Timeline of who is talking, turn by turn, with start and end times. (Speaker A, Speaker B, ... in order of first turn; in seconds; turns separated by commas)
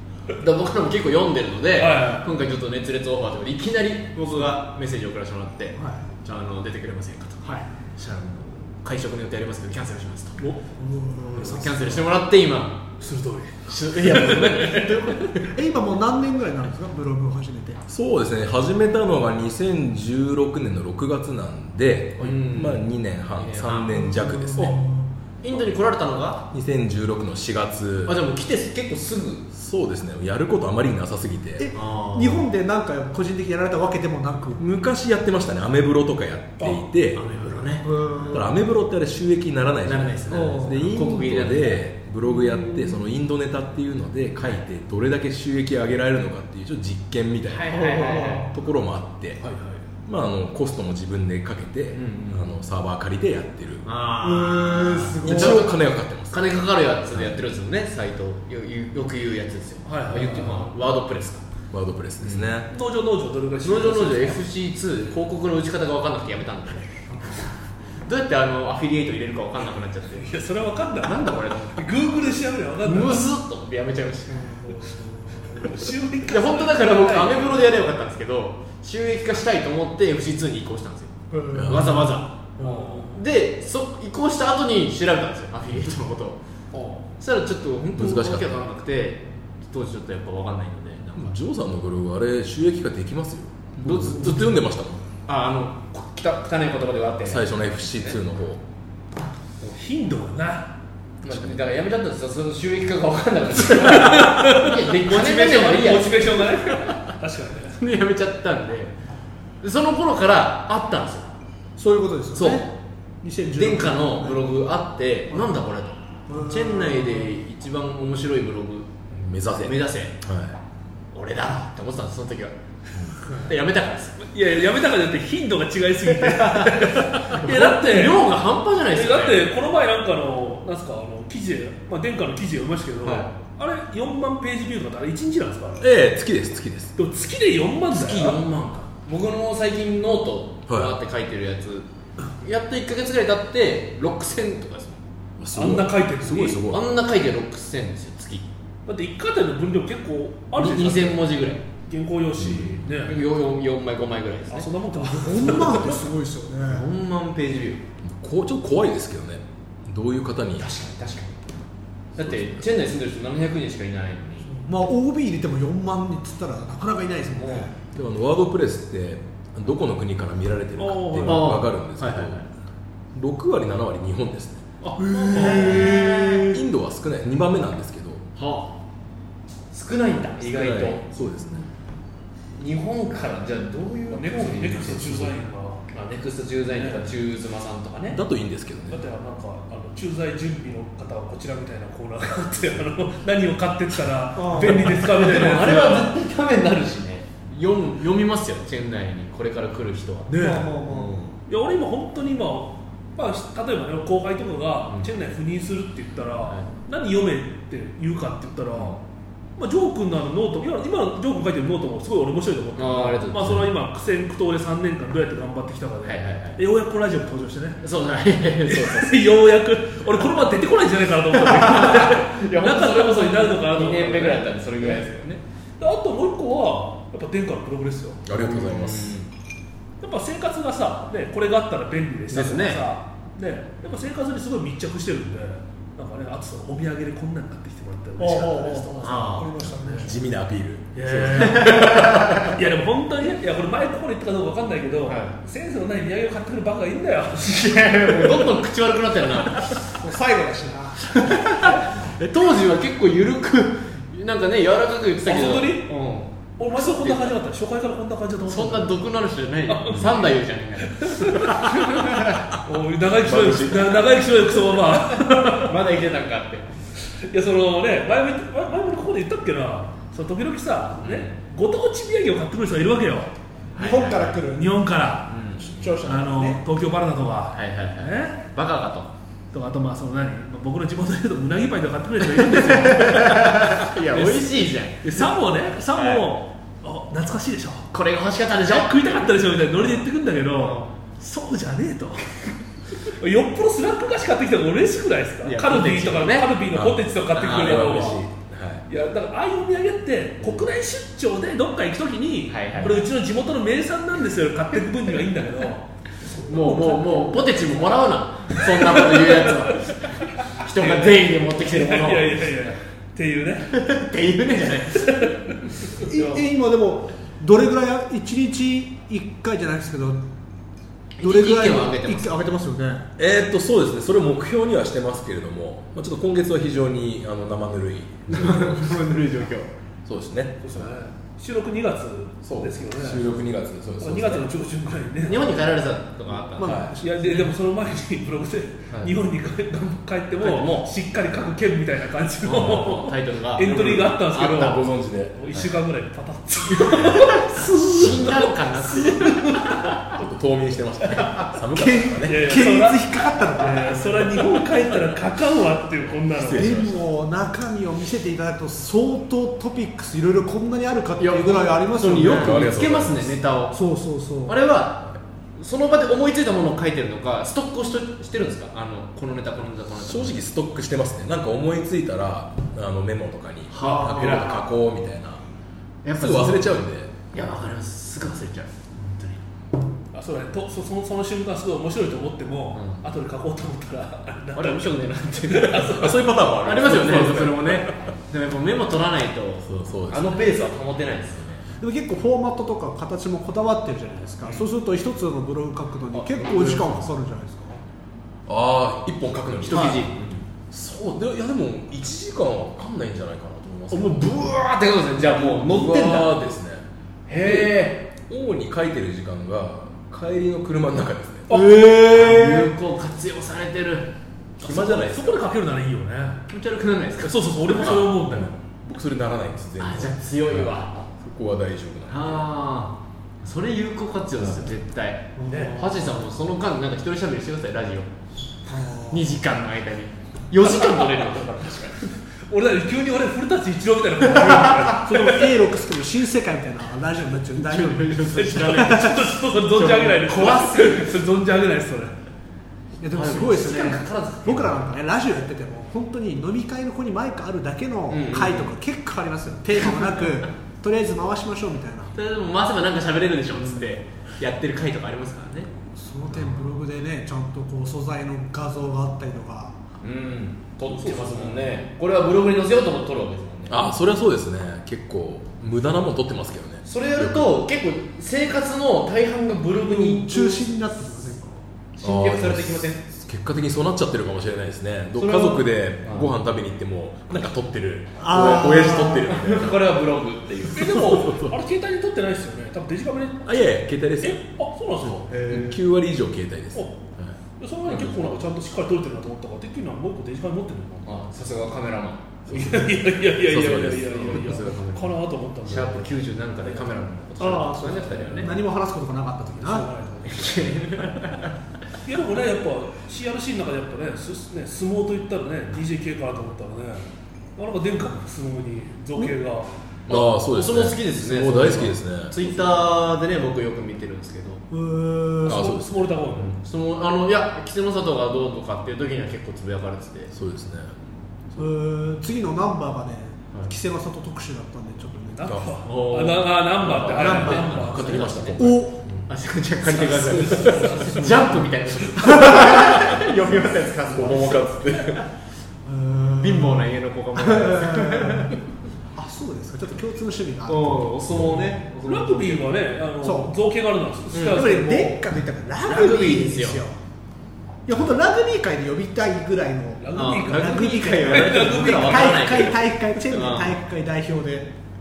Speaker A: 0.4-10.4, Speaker B: 1.8-2.2, Speaker C: 5.8-6.0, Speaker C: 10.8-11.7, Speaker B: 11.3-12.0, Speaker A: 11.3-12.8, Speaker B: 13.0-15.3, Speaker A: 13.7-15.4, Speaker C: 14.7-17.8, Speaker D: 17.9-24.8, Speaker A: 22.2-24.8, Speaker C: 23.9-25.0, Speaker A: 25.4-26.5, Speaker D: 26.5-28.2, Speaker A: 28.1-29.5, Speaker D: 29.5-31.7, Speaker C: 31.6-34.6, Speaker A: 31.7-32.5, Speaker D: 34.6-37.2, Speaker A: 37.1-38.2, Speaker C: 37.8-38.5, Speaker D: 38.3-47.9, Speaker A: 39.8-41.9, Speaker C: 40.3-40.9, Speaker A: 47.5-48.5, Speaker C: 47.7-48.5, Speaker D: 48.5-49.5, Speaker B: 49.4-49.8, Speaker D: 50.0-53.8, Speaker A: 51.9-52.5, Speaker A: 53.8-61.4, Speaker C: 54.2-55.6, Speaker D: 55.2-56.5, Speaker D: 57.1-57.4, Speaker B: 59.9-60.7, Speaker D: 61.7-62.7, Speaker A: 62.2-62.5, Speaker B: 62.7-64.4, Speaker A: 63.6-67.5, Speaker C: 67.1-67.4, Speaker A: 68.0-70.3, Speaker B: 70.2-73.2, Speaker A: 71.0-71.8, Speaker A: 72.8-74.4, Speaker C: 74.3-75.7, Speaker B: 75.5-77.6, Speaker A: 76.2-86.4, Speaker C: 81.3-83.0, Speaker D: 81.5-82.1, Speaker B: 82.6-83.2, Speaker B: 86.7-87.0, Speaker A: 87.2-91.4, Speaker D: 87.9-88.6, Speaker D: 91.1-95.0, Speaker A: 93.8-94.6, Speaker A: 95.2-98.2, Speaker D: 97.2-98.6, Speaker B: 99.6-100.7, Speaker D: 101.2-101.6, Speaker A: 101.2-107.1, Speaker B: 103.7-107.8, Speaker A: 107.8-109.0, Speaker A: 109.6-111.3, Speaker C: 111.8-112.7, Speaker A: 112.3-112.7, Speaker C: 113.2-114.5, Speaker A: 113.5-118.9, Speaker C: 116.3-117.3, Speaker D: 119.1-120.6, Speaker A: 119.6-120.2, Speaker A: 121.1-122.5, Speaker A: 123.4-124.2, Speaker B: 124.2-128.2, Speaker A: 126.2-129.5, Speaker B: 128.9-135.8, Speaker A: 133.0-133.3, Speaker D: 135.8-136.9, Speaker B: 136.9-138.4, Speaker A: 137.9-141.9, Speaker D: 140.7-140.9, Speaker A: 142.4-145.0, Speaker D: 145.4-146.8, Speaker B: 145.5-146.6, Speaker A: 146.6-148.5, Speaker B: 148.8-153.2, Speaker A: 150.6-151.6, Speaker D: 152.4-152.8, Speaker A: 153.0-156.0, Speaker B: 154.5-156.0, Speaker C: 154.9-156.8, Speaker A: 156.6-157.8, Speaker D: 158.0-160.7, Speaker A: 160.6-161.4, Speaker A: 162.2-164.5, Speaker D: 162.2-162.6, Speaker C: 164.5-167.7, Speaker A: 167.3-167.7, Speaker D: 167.9-172.4, Speaker B: 170.8-171.6, Speaker A: 171.2-172.5, Speaker D: 173.1-174.6, Speaker B: 174.8-176.0, Speaker C: 175.0-176.6, Speaker A: 175.3-176.6, Speaker D: 176.5-178.2, Speaker A: 178.3-178.8, Speaker A: 179.7-181.0, Speaker D: 180.4-181.6, Speaker A: 182.6-185.3, Speaker B: 184.1-185.8, Speaker A: 185.9-188.2, Speaker B: 186.8-187.1, Speaker D: 188.1-189.1, Speaker B: 188.9-196.1, Speaker C: 194.3-194.9, Speaker A: 194.5-201.3, Speaker B: 200.3-200.8, Speaker C: 200.3-201.2, Speaker B: 201.5-209.0, Speaker B: 209.6-217.8, Speaker A: 212.8-213.6, Speaker A: 216.0-216.6, Speaker A: 217.8-219.2, Speaker B: 218.7-225.0, Speaker A: 221.3-225.4, Speaker B: 225.8-228.2, Speaker D: 228.2-229.3, Speaker A: 228.3-229.1, Speaker B: 230.0-240.1, Speaker A: 232.3-232.8, Speaker C: 238.2-240.1, Speaker A: 239.0-239.7, Speaker D: 240.0-242.6, Speaker B: 240.9-248.5, Speaker A: 241.3-242.5, Speaker A: 245.1-245.3, Speaker A: 247.4-249.7, Speaker C: 249.8-251.7, Speaker A: 251.1-257.3, Speaker B: 255.2-255.9, Speaker B: 256.6-259.0, Speaker A: 258.5-262.4, Speaker B: 259.7-261.7, Speaker B: 262.5-265.7, Speaker D: 263.2-264.1, Speaker A: 265.4-266.7, Speaker B: 267.0-273.3, Speaker A: 271.0-271.3, Speaker A: 273.7-274.4, Speaker C: 273.8-274.7, Speaker B: 274.5-275.4, Speaker A: 275.3-275.8, Speaker C: 275.6-276.6, Speaker B: 275.9-278.4, Speaker A: 277.5-279.1, Speaker B: 279.5-287.9, Speaker A: 282.2-285.3, Speaker A: 285.9-286.3, Speaker A: 287.9-290.0, Speaker B: 288.6-292.4, Speaker A: 290.5-290.9, Speaker B: 293.1-298.2, Speaker A: 295.4-296.5, Speaker D: 296.7-298.9, Speaker A: 297.3-298.1, Speaker B: 298.9-305.9, Speaker A: 302.5-303.0, Speaker B: 306.4-307.4, Speaker A: 306.4-312.7, Speaker B: 308.6-313.8, Speaker A: 313.7-315.3, Speaker B: 315.1-316.4, Speaker C: 315.9-320.2, Speaker A: 321.1-322.4, Speaker C: 321.2-323.1, Speaker D: 323.2-329.0, Speaker A: 328.3-329.7, Speaker D: 330.1-330.9, Speaker B: 330.6-333.4, Speaker D: 332.4-334.5, Speaker B: 334.0-335.6, Speaker A: 335.2-336.8, Speaker C: 336.6-337.5, Speaker D: 336.6-336.9, Speaker B: 337.0-350.0, Speaker A: 340.4-340.9, Speaker A: 342.4-344.8, Speaker D: 343.6-345.4, Speaker A: 346.7-350.0, Speaker D: 347.9-348.3, Speaker D: 350.1-352.6, Speaker C: 351.7-354.6, Speaker B: 352.2-356.8, Speaker D: 356.3-357.0, Speaker C: 356.6-362.6, Speaker A: 361.2-363.8, Speaker D: 362.2-363.4, Speaker C: 363.7-364.6, Speaker A: 364.4-370.4, Speaker D: 370.0-375.4, Speaker A: 373.7-374.6, Speaker C: 373.9-374.4, Speaker A: 376.0-376.8, Speaker D: 376.1-377.1, Speaker A: 377.3-379.4, Speaker B: 380.1-386.2, Speaker A: 382.7-383.0, Speaker A: 384.5-386.1, Speaker D: 385.8-388.1, Speaker A: 386.6-391.6, Speaker D: 389.6-390.5, Speaker C: 391.8-397.8, Speaker A: 396.1-397.0, Speaker D: 398.5-400.1, Speaker A: 399.6-400.4, Speaker D: 400.7-404.5, Speaker A: 403.9-406.4, Speaker D: 405.2-406.8, Speaker A: 407.3-408.1, Speaker D: 407.4-411.6, Speaker B: 411.5-412.2, Speaker A: 411.5-414.1, Speaker C: 412.4-412.6, Speaker D: 414.6-415.4, Speaker B: 414.6-416.4, Speaker A: 416.5-417.6, Speaker B: 417.2-418.5, Speaker D: 417.7-422.5, Speaker A: 419.8-420.9, Speaker A: 422.1-428.1, Speaker C: 425.4-426.2, Speaker C: 428.6-429.3, Speaker A: 429.1-432.0, Speaker B: 430.6-435.7, Speaker C: 434.3-439.2, Speaker A: 437.6-441.1, Speaker B: 438.3-442.1, Speaker C: 443.0-452.1, Speaker A: 443.1-444.9, Speaker A: 448.1-448.7, Speaker A: 452.1-455.7, Speaker C: 453.6-453.9, Speaker C: 455.9-459.7, Speaker A: 460.0-463.8, Speaker B: 460.9-461.7, Speaker D: 463.7-467.5, Speaker A: 466.9-470.6, Speaker C: 469.8-471.6, Speaker A: 471.9-473.0, Speaker D: 472.0-479.9, Speaker A: 475.2-476.3, Speaker C: 478.2-479.3, Speaker A: 479.2-481.1, Speaker B: 480.7-483.7, Speaker D: 481.0-481.6, Speaker D: 483.4-484.4, Speaker B: 484.2-485.3, Speaker D: 485.0-487.4, Speaker A: 485.3-485.8, Speaker B: 486.7-487.0, Speaker B: 487.6-491.1, Speaker A: 487.9-488.3, Speaker D: 487.9-488.2, Speaker A: 491.0-492.9, Speaker D: 492.5-492.9, Speaker B: 492.5-496.9, Speaker D: 493.4-494.6, Speaker A: 493.9-498.6, Speaker C: 497.4-499.9, Speaker B: 499.6-500.9, Speaker A: 500.2-501.5, Speaker B: 502.0-509.7, Speaker D: 510.1-512.3, Speaker A: 510.1-514.6, Speaker C: 514.7-515.6, Speaker B: 515.4-516.5, Speaker D: 515.5-516.1, Speaker A: 516.3-520.3, Speaker D: 520.3-521.6, Speaker C: 521.6-525.6, Speaker B: 525.4-528.5, Speaker D: 525.4-526.3, Speaker A: 525.8-528.6, Speaker D: 526.8-529.3, Speaker C: 527.2-527.7, Speaker C: 528.6-529.0, Speaker A: 529.2-535.1, Speaker B: 529.9-531.7, Speaker D: 530.0-531.1, Speaker D: 534.1-535.2, Speaker C: 535.8-538.5, Speaker A: 536.4-538.5, Speaker C: 539.1-541.7, Speaker A: 540.6-542.7, Speaker D: 541.3-541.7, Speaker B: 542.0-545.2, Speaker C: 543.2-543.5, Speaker A: 544.3-544.6, Speaker C: 544.4-547.0, Speaker A: 545.8-546.8, Speaker C: 547.9-554.7, Speaker B: 550.0-552.7, Speaker A: 550.1-553.8